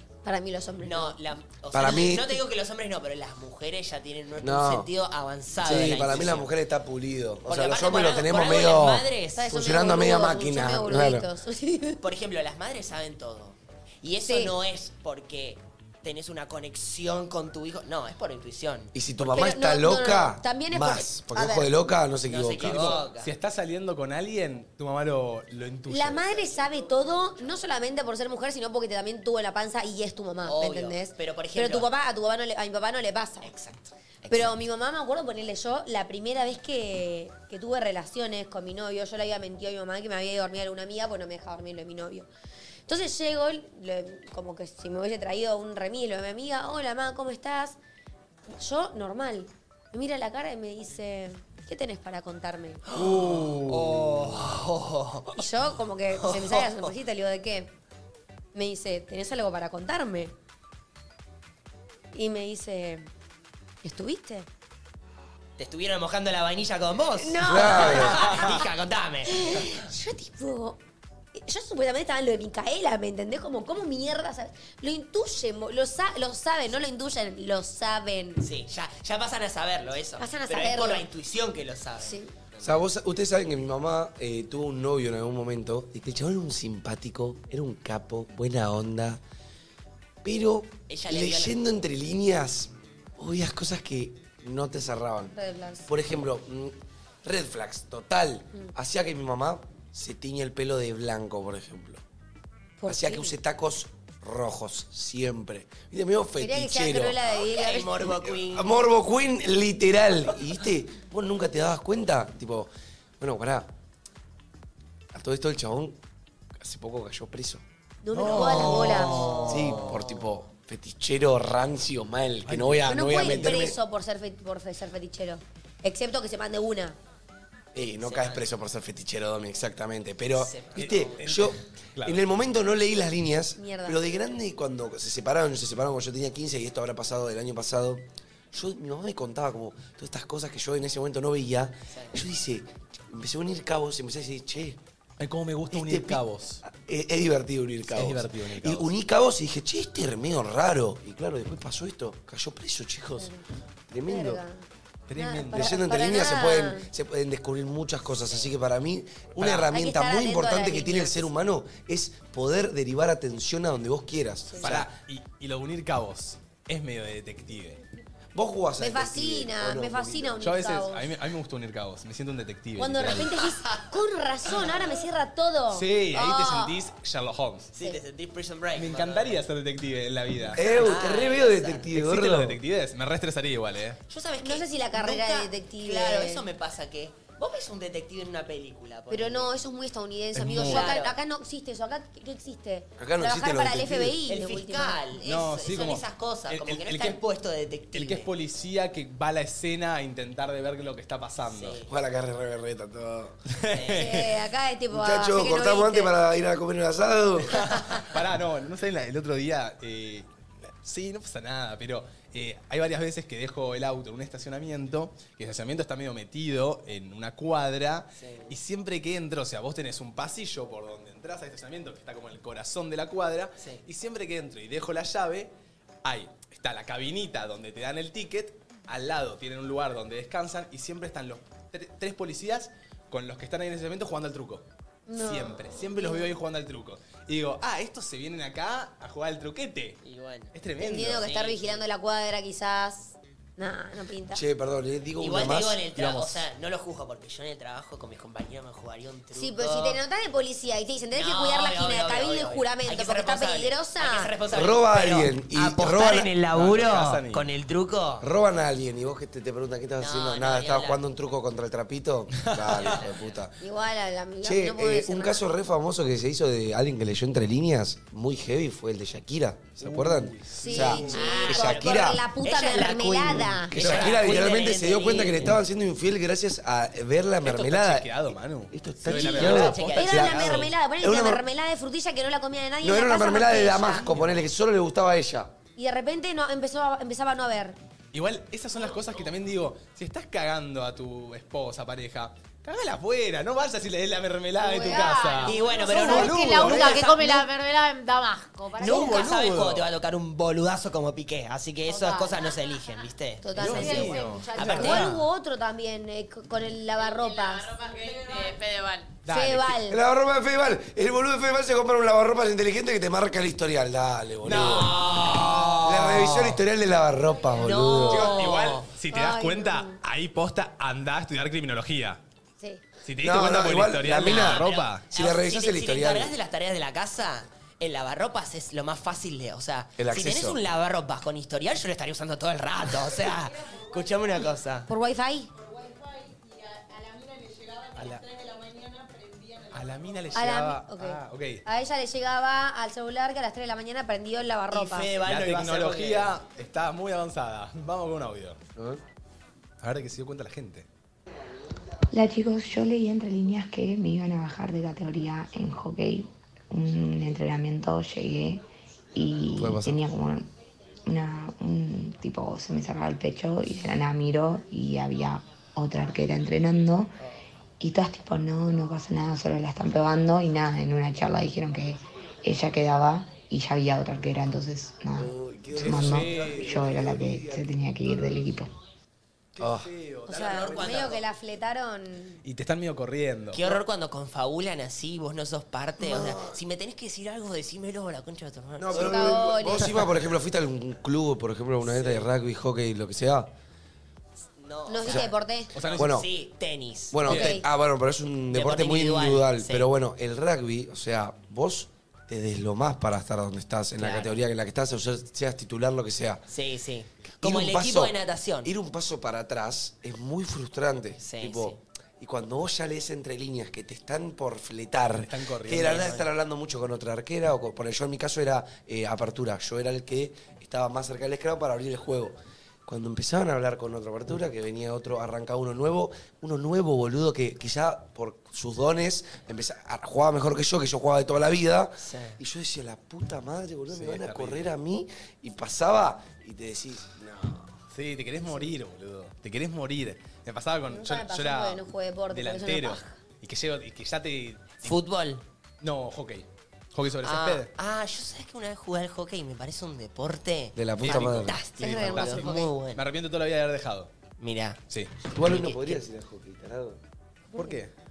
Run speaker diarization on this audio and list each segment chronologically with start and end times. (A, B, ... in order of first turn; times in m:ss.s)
0:00.2-0:01.2 A
0:00.8-0:06.5 B
0:01.7-0:02.4 C
0:04.4-0:04.9 C
0:05.6-0:11.3 C
0:07.4-0:09.5 B
0:09.4-0:12.0 A
0:12.0-0:18.9 B
0:14.3-0:14.5 A
0:18.9-0:23.0 C
0:19.3-0:21.7 A
0:22.3-0:23.3 B
0:22.6-0:26.2 D
0:25.9-0:33.5 A
0:30.4-0:31.9 B
0:33.4-0:34.6 B
0:34.3-0:42.3 A
0:42.9-0:47.8 A
0:48.5-0:52.8 A
0:52.8-0:55.4 B
0:52.9-0:54.5 D
0:55.4-0:57.7 A
0:56.1-0:56.9 B
0:58.5-1:00.3 A
1:02.1-1:03.1 A
1:03.8-1:04.5 A
1:05.6-1:09.7 B
1:07.1-1:08.6 A
1:07.4-1:08.2 C
1:09.3-1:10.8 A
1:11.4-1:18.4 A
1:18.4-1:22.8 B
1:20.2-1:21.0 A
1:22.0-1:22.3 A
1:22.6-1:29.2 C
1:30.2-1:35.4 C
1:30.9-1:31.6 B
1:35.3-1:35.9 A
1:35.9-1:42.0 C
1:42.8-1:43.4 A
1:42.9-1:47.2 C
1:46.4-1:48.1 A
1:47.3-1:48.8 B
1:48.2-1:53.7 C
1:55.1-1:56.0 C
1:56.6-1:57.6 C
1:58.0-1:59.5 A
1:58.1-1:59.9 D
1:58.2-2:00.1 B
1:59.4-2:03.8 C
2:02.4-2:03.8 D
2:02.9-2:07.0 A
2:07.7-2:24.8 C
2:08.0-2:08.5 B
2:10.4-2:11.4 B
2:10.8-2:12.3 D
2:13.6-2:14.0 A
2:21.9-2:22.2 B
2:25.2-2:26.6 D
2:25.7-2:33.3 C
2:27.9-2:28.9 D
2:33.2-2:33.4 A
2:33.9-2:34.4 C
2:34.1-2:36.8 A
2:35.1-2:35.8 D
2:35.5-2:44.9 C
2:39.4-2:39.7 D
2:39.6-2:41.3 A
2:44.4-2:44.7 A
2:44.6-2:47.8 D
2:48.3-2:50.4 C
2:48.8-2:51.1 A
2:50.4-2:53.4 D
2:52.8-2:56.8 A
2:55.7-2:57.7 D
2:57.7-2:59.4 B
2:58.7-3:00.6 D
3:00.5-3:02.6 C
3:00.6-3:01.9 B
3:01.9-3:04.0 D
3:04.1-3:09.6 B
3:04.4-3:06.5 A
3:09.1-3:15.0 A
3:10.3-3:11.0 D
3:10.5-3:11.2 B
3:13.0-3:14.2 C
3:14.2-3:18.3 B
3:15.2-3:17.2 D
3:17.9-3:21.8 D
3:21.5-3:21.9 B
3:21.9-3:23.4 C
3:23.5-3:24.3 D
3:23.7-3:24.1 B
3:23.9-3:26.1 A
3:24.9-3:27.8 C
3:27.4-3:30.3 D
3:30.8-3:45.5 D
3:38.2-3:38.6 B
3:43.6-3:43.8 B
3:46.0-4:00.0 D
3:55.1-3:56.3 A
4:00.0-4:00.5 B
4:00.5-4:01.3 D
4:00.8-4:04.4 A
4:01.2-4:01.8 B
4:04.3-4:05.8 C
4:05.2-4:10.0 B
4:06.0-4:06.4 D
4:09.3-4:14.3 A
4:11.1-4:18.3 B
4:14.5-4:16.3 C
4:16.5-4:17.4 D
4:18.2-4:23.5 C
4:20.0-4:21.0 B
4:22.4-4:23.0 D
4:22.8-4:23.1 B
4:23.6-4:25.4 A
4:24.4-4:32.2 C
4:29.8-4:31.5 D
4:30.6-4:33.9 A
4:30.8-4:35.6 B
4:33.7-4:38.1 C
4:33.8-4:34.4 D
4:37.4-4:40.7 D
4:38.7-4:41.4 C
4:39.1-4:40.7 B
4:39.8-4:44.1 A
4:42.8-4:45.5 C
4:44.0-4:44.5 D
4:45.8-4:47.8 A
4:48.1-4:57.3 D
4:54.6-4:59.2 E
4:54.7-4:55.3 A
4:55.4-4:57.4 B
4:58.8-4:59.8 D
4:58.8-5:05.1 B
5:02.0-5:02.4 E
5:02.0-5:02.4 A
5:03.4-5:07.8 A
5:03.6-5:05.2 D
5:03.7-5:05.0 E
5:07.0-5:09.1 F
5:08.2-5:08.5 E
5:09.2-5:09.8 D
5:09.3-5:10.0 A
5:09.9-5:14.9 C
5:14.4-5:16.5 D
5:14.4-5:16.5 B
5:15.8-5:18.3 C
5:17.5-5:18.9 B
5:18.1-5:22.2 D
5:19.1-5:20.0 A
5:23.0-5:25.0 D
5:23.2-5:26.3 C
5:24.1-5:34.9 B
5:30.0-5:30.6 C
5:34.9-5:35.5 A
5:36.9-5:37.7 E
5:37.9-5:38.2 D
5:38.4-5:39.1 E
5:39.7-5:41.6 D
5:40.3-5:45.1 A
5:44.7-5:46.3 B
5:45.2-5:48.6 D
5:48.8-5:49.0 C
5:49.8-5:50.8 D
5:52.1-5:58.6 G
5:59.1-6:00.4 G
5:59.6-6:00.0 C
6:01.0-6:07.1 G
6:07.8-6:18.7 G
6:15.2-6:18.4 C
6:15.7-6:16.9 D
6:19.5-6:21.2 D
6:19.6-6:19.9 C
6:20.3-6:21.2 B
6:20.3-6:22.4 A
6:22.4-6:23.6 D
6:23.5-6:29.6 B
6:26.0-6:26.6 C
6:28.8-6:33.5 C
6:28.9-6:30.0 A
6:31.8-6:32.2 B
6:34.6-6:37.5 B
6:34.9-6:35.7 A
6:35.1-6:36.1 D
6:36.0-6:36.3 C
6:37.1-6:46.4 C
6:37.3-6:37.5 D
6:37.3-6:37.6 A
6:38.5-6:39.9 B
6:44.0-6:44.4 B
6:46.5-6:48.7 B
6:47.4-7:17.7 C
6:51.2-6:51.8 B
6:55.1-6:56.1 D
6:55.7-6:56.3 B
7:12.0-7:12.4 B
7:13.9-7:14.7 D
7:17.9-7:25.0 D
7:20.9-7:23.1 A
7:24.8-7:25.4 B
7:25.8-7:27.7 D
7:27.2-7:33.0 B
7:30.8-7:31.6 C
7:31.0-7:34.1 D
7:31.8-7:32.7 A
7:34.4-7:34.8 B
7:35.3-7:37.0 C
7:35.4-7:36.0 B
7:37.5-7:37.8 A
7:37.5-7:37.9 D